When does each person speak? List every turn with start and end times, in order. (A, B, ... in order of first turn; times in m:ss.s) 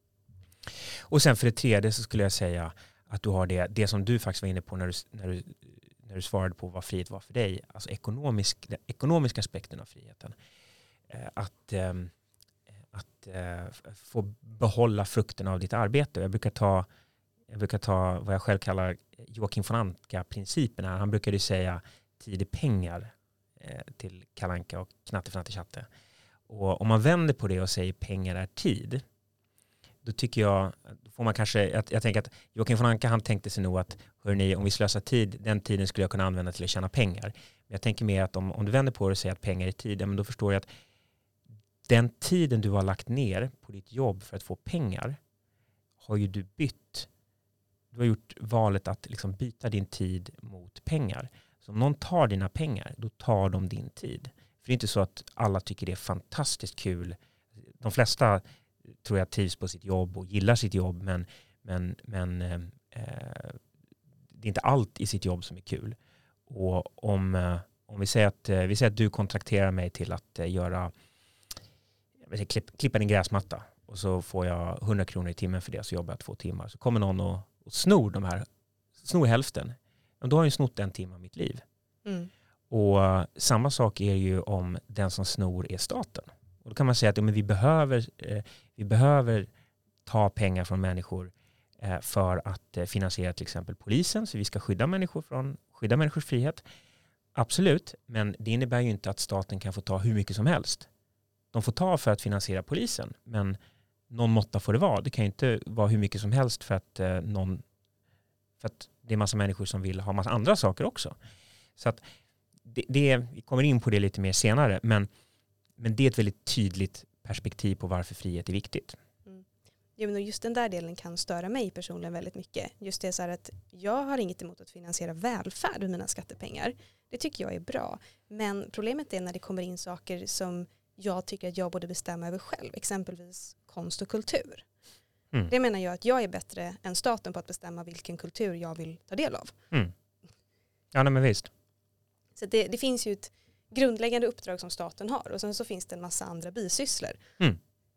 0:01.1-0:10.3 A
0:11.1-0:12.1 A
0:12.9-0:16.9 A
0:17.5-0:25.8 A
0:26.5-0:29.0 A
0:30.0-0:40.7 A
0:41.9-0:45.2 A
0:46.0-0:47.1 A
0:47.9-0:57.2 A
0:57.8-0:58.4 A
0:59.0-1:03.6 A
1:04.4-1:06.0 A
1:06.5-1:10.9 A
1:12.2-1:18.4 A
1:19.0-1:21.6 A
1:22.0-1:22.3 B
1:22.7-1:29.5 A
1:30.0-1:36.6 A
1:37.3-1:40.9 A
1:41.5-1:43.6 A
1:44.1-1:47.6 A
1:48.6-1:51.1 A
1:52.6-1:55.1 A
1:55.8-1:59.0 A
2:00.0-2:14.6 B
2:15.5-2:19.5 B
2:20.9-2:21.5 A
2:22.4-2:27.2 B